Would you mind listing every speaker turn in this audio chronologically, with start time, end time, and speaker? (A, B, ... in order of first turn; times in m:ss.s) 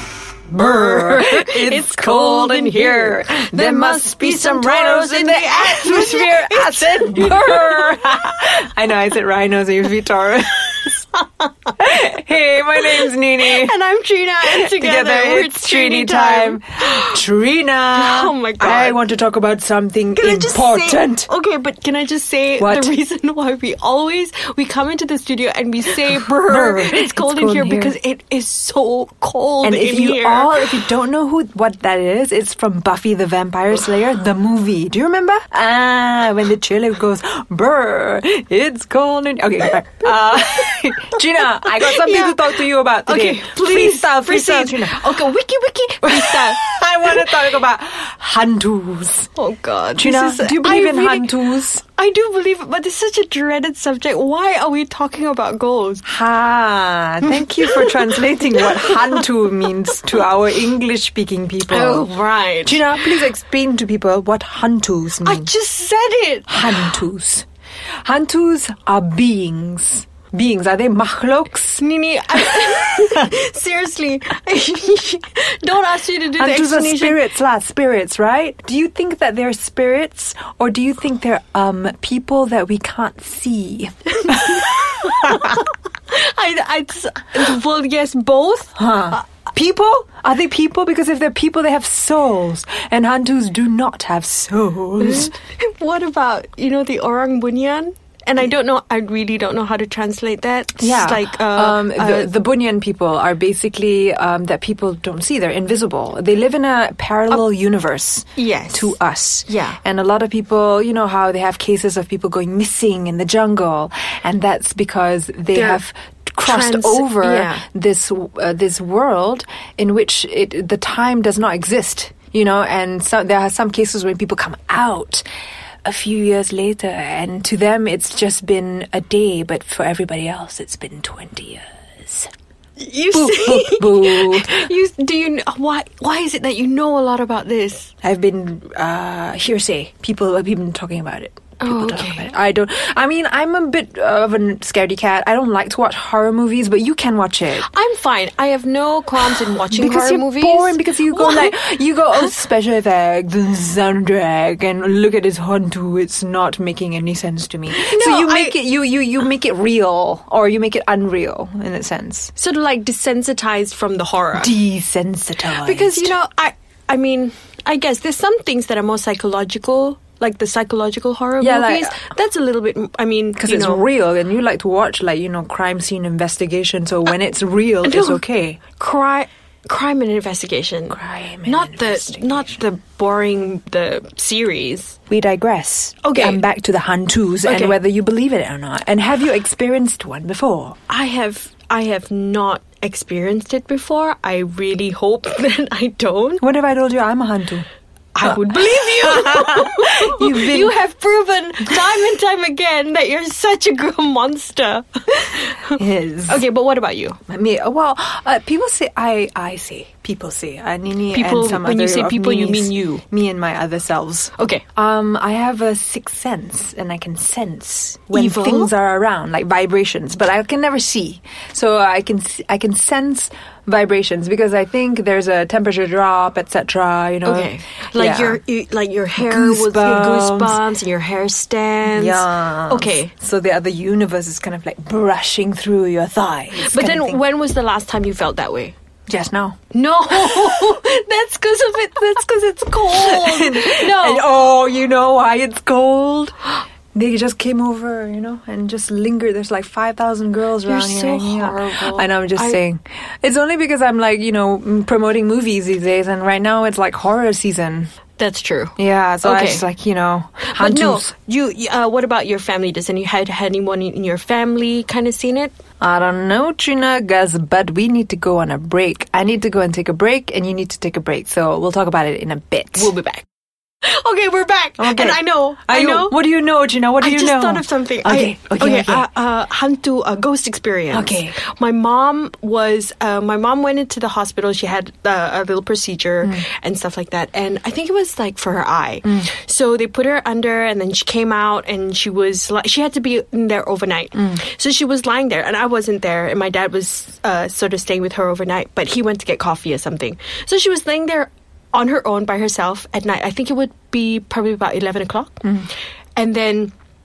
0:00.5-0:11.0 A
0:00.6-0:08.0 B
0:11.2-0:11.7 B
0:11.8-0:13.7 A
0:12.8-0:17.2 B
0:14.4-0:21.3 A
0:17.9-0:19.0 B
0:20.2-0:30.8 B
0:22.6-0:22.9 A
0:26.4-0:28.0 A
0:29.6-0:45.3 A
0:41.7-0:47.3 B
0:46.0-0:49.3 A
0:49.4-0:56.1 B
0:50.0-0:51.8 A
0:56.0-1:02.1 A
0:57.3-0:59.3 B
1:01.7-1:03.2 B
1:02.6-1:05.5 A
1:05.2-1:06.9 B
1:06.5-1:07.5 A
1:08.0-1:11.8 A
1:11.8-1:17.2 B
1:12.3-1:13.1 A
1:16.4-1:25.6 A
1:24.2-1:29.2 B
1:28.8-1:35.3 A
1:35.0-1:42.3 B
1:40.8-2:05.2 A
1:48.4-1:49.8 B
1:55.5-1:55.8 B
1:56.4-1:57.6 B
2:05.8-2:12.3 A
2:12.8-2:17.9 B
2:13.1-2:14.6 A
2:18.0-2:27.7 A
2:21.6-2:22.3 B
2:27.6-2:32.3 B
2:29.3-2:42.3 A
2:37.7-2:38.6 B
2:42.4-2:44.6 B
2:44.3-2:46.1 A
2:45.6-2:53.8 B
2:51.4-2:52.0 A
2:53.4-2:58.6 A
2:57.8-2:58.2 B
2:58.8-3:05.0 B
3:00.9-3:02.6 A
3:05.1-3:10.8 A
3:06.0-3:06.4 B
3:07.4-3:07.8 B
3:10.9-3:16.4 B
3:16.4-3:17.7 A
3:18.2-3:27.2 B
3:18.2-3:20.8 A
3:25.8-3:26.4 A
3:27.3-3:48.4 A
3:31.1-3:33.0 B
3:34.4-3:34.6 B
3:38.1-3:38.7 B
3:47.2-3:53.1 B
3:49.2-3:50.6 A
3:51.8-3:57.2 A
3:56.6-3:58.8 B
3:59.1-3:59.6 A
3:59.7-4:04.3 B
4:02.9-4:06.4 A
4:06.9-4:17.9 A
4:10.7-4:12.6 B
4:18.2-4:19.7 B
4:18.8-4:21.1 A
4:20.4-4:25.6 B
4:25.8-4:33.0 A
4:32.8-4:33.2 B
4:33.8-4:36.2 B
4:34.8-4:39.1 A
4:37.0-5:05.6 B
4:40.9-4:41.4 A
5:06.2-5:06.7 B